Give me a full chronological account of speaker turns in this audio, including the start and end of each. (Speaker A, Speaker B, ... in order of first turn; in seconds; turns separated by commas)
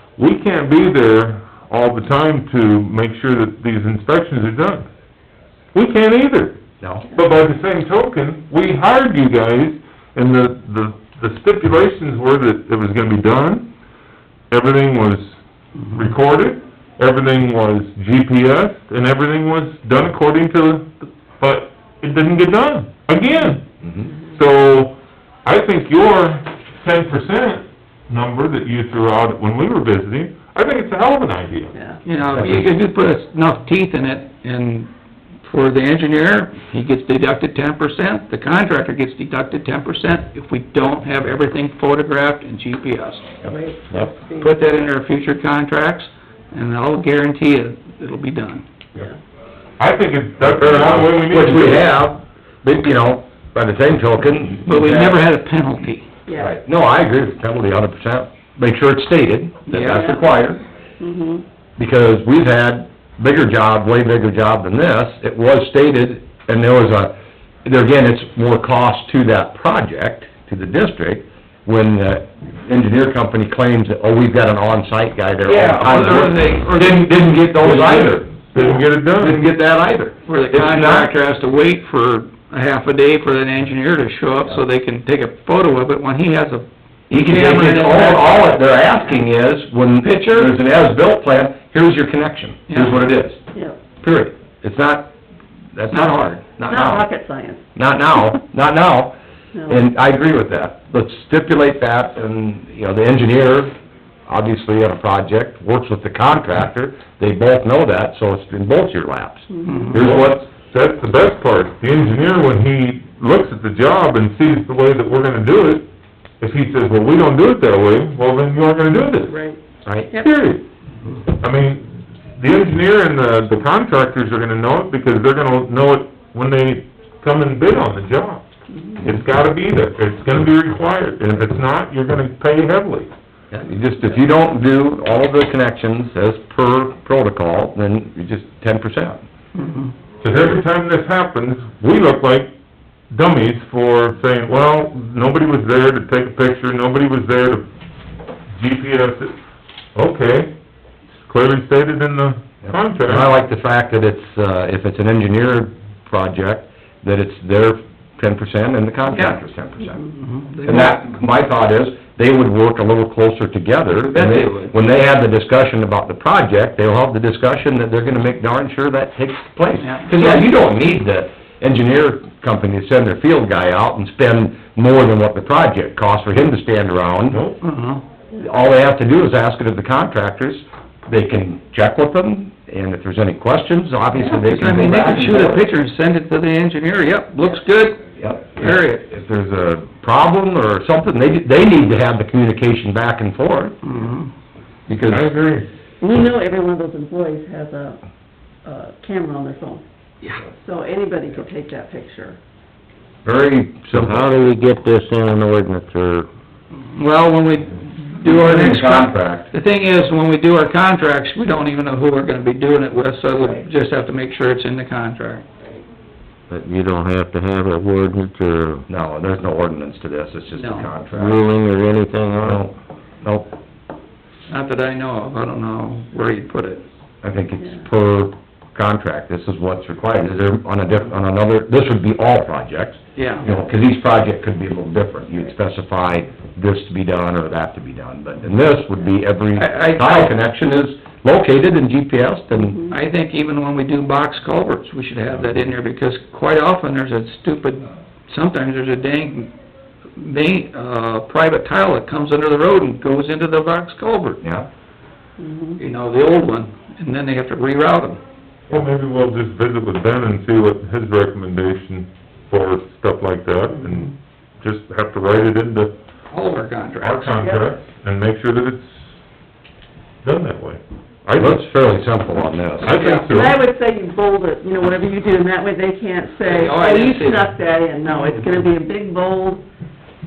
Speaker A: 0.2-4.9, Speaker A: 5.7-6.6, Speaker B: 6.8-7.1, Speaker A: 7.1-13.7, Speaker A: 14.5-15.4, Speaker C: 15.8-16.1, Speaker A: 15.9-23.6, Speaker B: 23.8-24.1, Speaker A: 24.3-31.7, Speaker D: 31.7-32.0, Speaker C: 32.0-34.9, Speaker B: 32.4-32.6, Speaker C: 35.4-43.4, Speaker D: 43.4-44.6, Speaker C: 44.3-48.6, Speaker A: 49.8-51.9, Speaker B: 50.5-55.2, Speaker C: 54.6-56.1, Speaker D: 56.3-56.5, Speaker B: 56.4-60.6, Speaker C: 59.7-60.2, Speaker D: 59.9-60.3, Speaker D: 61.0-61.4, Speaker B: 61.8-81.1, Speaker C: 75.4-77.1, Speaker A: 77.5-79.4, Speaker C: 80.2-88.6, Speaker B: 87.1-93.4, Speaker C: 90.0-90.5, Speaker C: 92.7-93.0, Speaker D: 93.5-93.8, Speaker B: 94.0-95.1, Speaker B: 95.7-97.1, Speaker C: 95.9-96.4, Speaker D: 96.7-97.6, Speaker B: 97.7-99.2, Speaker D: 99.5-99.8, Speaker B: 99.7-103.7, Speaker B: 104.3-110.4, Speaker D: 109.5-109.9, Speaker C: 109.7-110.0, Speaker A: 109.9-115.9, Speaker A: 116.4-119.4, Speaker D: 119.3-119.6, Speaker B: 119.8-120.1, Speaker A: 120.1-120.6, Speaker A: 121.3-128.4, Speaker D: 128.7-129.0, Speaker A: 129.0-133.1, Speaker B: 133.5-139.2, Speaker C: 139.5-139.9, Speaker A: 140.2-142.5, Speaker A: 143.1-147.7, Speaker A: 148.5-149.3, Speaker A: 149.9-150.5, Speaker A: 151.2-153.2, Speaker B: 152.6-160.1, Speaker C: 159.1-159.4, Speaker C: 160.0-161.2, Speaker B: 160.6-177.4, Speaker C: 164.0-164.7, Speaker C: 169.8-170.5, Speaker A: 177.3-177.6, Speaker C: 177.6-178.0, Speaker B: 178.3-185.6, Speaker C: 184.2-189.0, Speaker B: 188.2-193.8, Speaker C: 193.8-194.3, Speaker B: 194.9-195.3, Speaker A: 195.1-195.7, Speaker D: 196.0-198.0, Speaker D: 198.6-199.8, Speaker D: 200.5-202.4, Speaker B: 203.2-204.3, Speaker E: 203.9-206.3, Speaker C: 206.8-215.8, Speaker B: 208.2-209.5, Speaker E: 216.5-218.8, Speaker B: 218.9-221.4, Speaker C: 220.5-220.9, Speaker E: 221.1-222.6, Speaker B: 222.4-223.5, Speaker C: 224.5-226.8, Speaker B: 227.2-242.8, Speaker C: 233.2-233.5, Speaker C: 239.5-240.3, Speaker D: 242.5-242.9, Speaker C: 242.9-249.5, Speaker C: 250.2-254.4, Speaker B: 254.4-254.7, Speaker D: 255.4-255.8, Speaker C: 255.8-258.2, Speaker A: 258.7-265.9, Speaker C: 266.3-267.4, Speaker A: 267.0-269.0, Speaker D: 267.4-267.7, Speaker A: 270.2-271.6, Speaker B: 271.4-273.0, Speaker A: 272.8-273.6, Speaker D: 272.9-279.6, Speaker C: 272.9-273.2, Speaker C: 276.4-277.5, Speaker C: 278.0-278.6